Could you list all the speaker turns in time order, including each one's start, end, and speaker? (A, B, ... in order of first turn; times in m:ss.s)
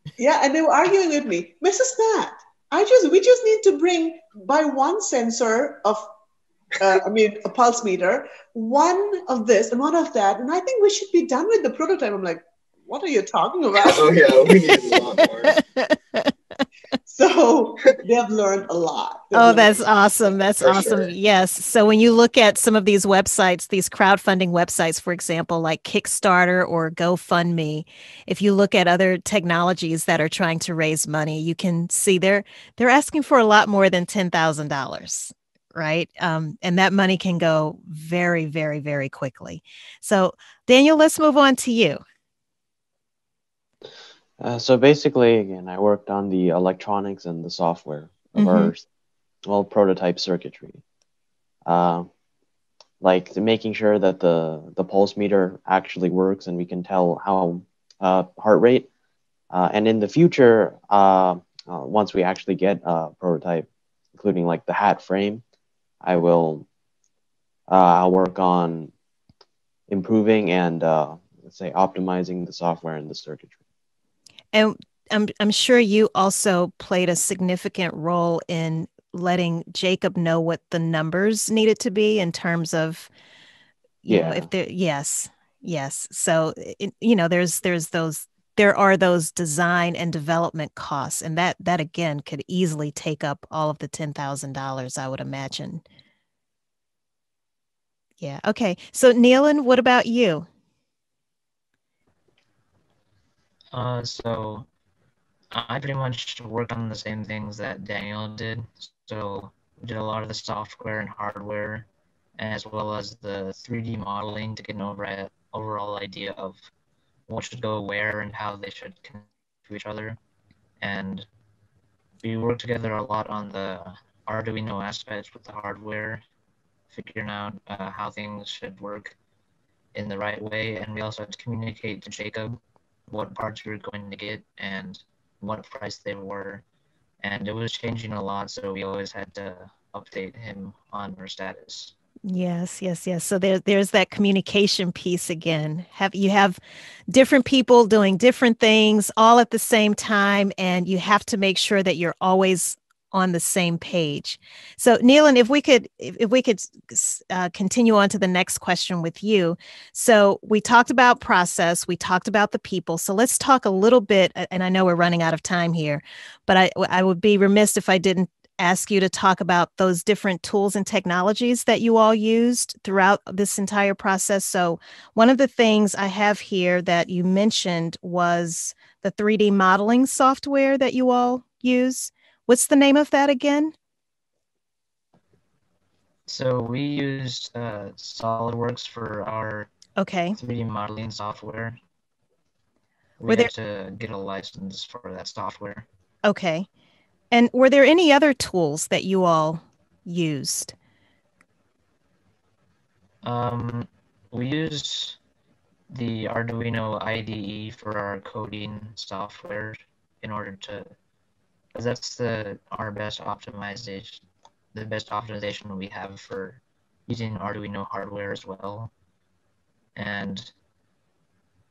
0:00.2-0:06.1 A
0:06.8-0:14.5 A
0:13.9-0:15.6 B
0:15.5-0:16.3 C
0:17.1-0:19.8 A
0:19.3-0:42.0 C
0:20.6-0:21.1 B
0:44.4-0:48.8 D
0:48.4-0:48.7 C
0:49.5-0:50.8 D
0:51.7-0:52.1 D
0:53.0-0:58.9 D
0:59.5-1:05.4 D
1:06.0-1:06.6 D
1:07.7-1:08.9 D
1:09.9-1:13.6 D
1:14.5-1:23.1 C
1:24.0-1:35.8 C
1:24.1-1:24.5 D
1:38.2-1:40.5 C
1:43.7-1:44.7 E
1:45.5-1:51.9 E
1:52.4-1:56.7 E
1:57.3-2:00.2 E
2:00.8-2:01.3 E
2:02.2-2:06.2 E
2:06.9-2:09.1 E
2:09.9-2:16.6 E
2:17.2-2:21.9 E
2:22.3-3:03.7 C
3:06.3-3:09.7 E
3:10.0-3:10.4 C
3:10.4-3:11.8 E
3:13.2-3:15.9 E
3:16.2-3:16.7 C
3:17.3-3:20.8 C
3:23.2-3:25.2 E
3:25.9-3:30.9 E
3:31.7-3:34.2 E
3:34.7-3:38.9 E
3:40.0-3:40.5 E